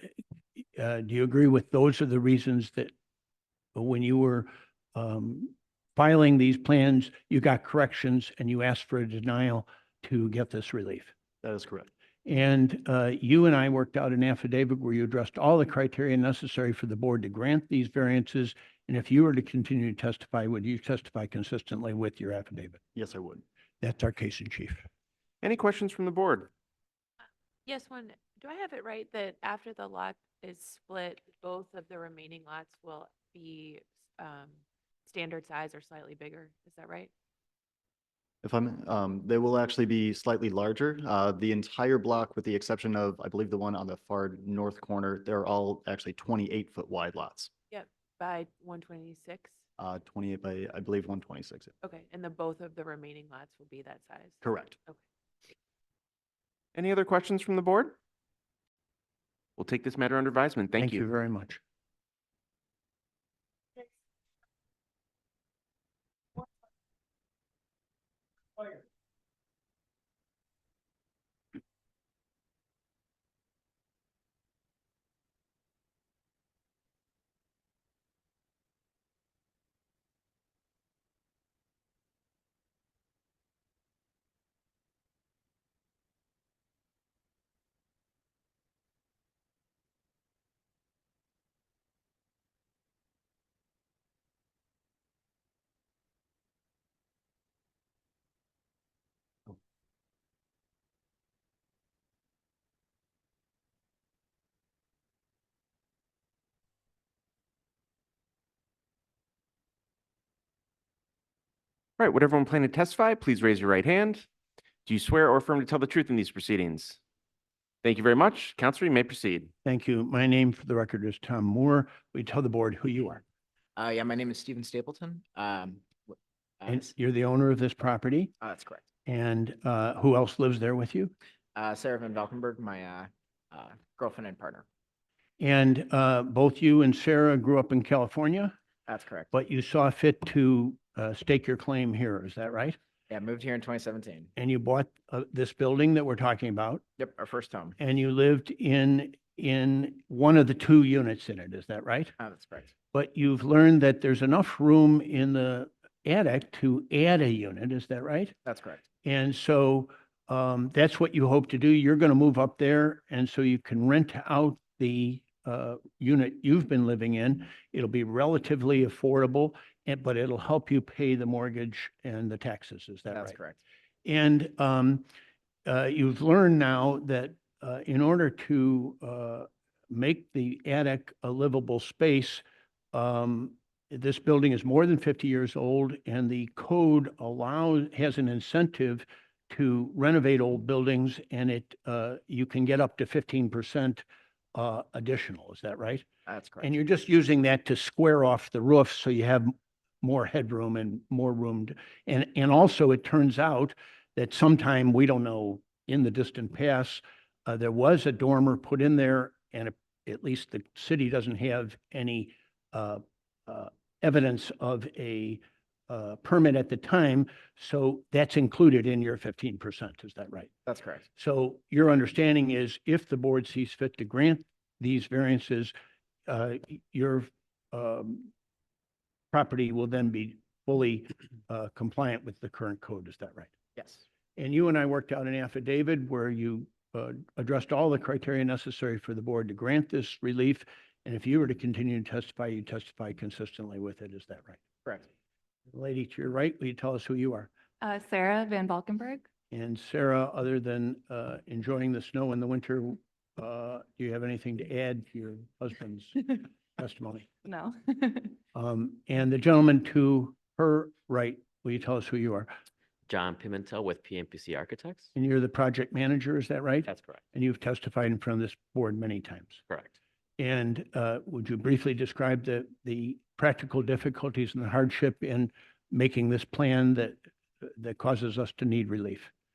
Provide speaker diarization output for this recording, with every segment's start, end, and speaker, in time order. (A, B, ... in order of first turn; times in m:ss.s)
0:00.8-0:02.9 A
0:03.7-0:11.1 A
0:11.4-0:11.9 B
0:12.2-0:22.8 A
0:22.9-0:23.4 B
0:23.8-0:24.8 A
0:25.4-0:26.5 C
0:27.6-0:37.1 D
0:38.4-0:47.5 B
0:47.7-0:49.6 D
0:49.8-0:51.7 B
0:51.8-0:55.0 D
0:54.4-0:54.8 B
0:56.7-0:58.0 C
0:59.6-1:01.0 C
1:00.8-1:01.6 A
1:52.0-1:54.3 C
1:54.8-1:57.0 C
1:57.8-1:59.5 C
1:59.6-2:03.2 A
2:03.8-2:06.9 E
2:06.7-2:08.3 A
2:08.4-2:08.8 E
2:09.0-2:11.1 A
2:11.5-2:14.6 E
2:15.4-2:18.5 A
2:18.9-2:19.3 E
2:19.3-2:22.8 A
2:23.1-2:24.3 E
2:24.4-2:26.8 A
2:27.0-2:27.8 E
2:27.8-2:32.1 A
2:32.2-2:32.7 E
2:32.9-2:38.4 A
2:38.4-2:38.8 E
2:39.0-2:53.4 A
2:53.1-2:53.6 E
2:54.0-2:55.0 A
2:55.6-3:16.0 A
3:16.3-3:16.7 E
3:16.6-3:40.5 A
3:40.7-3:41.1 E
3:41.1-3:45.7 A
3:46.3-3:48.3 A
3:49.3-3:53.5 A
3:53.8-3:54.0 E
3:54.4-4:04.6 A
4:05.7-4:07.5 A
4:07.8-4:09.2 F
4:09.5-4:17.3 A
4:17.4-4:18.3 F
4:18.5-4:22.5 A
4:23.1-4:25.1 G
4:25.1-4:29.6 A
4:26.9-4:27.2 G
4:29.7-4:30.0 G
4:30.4-4:39.3 A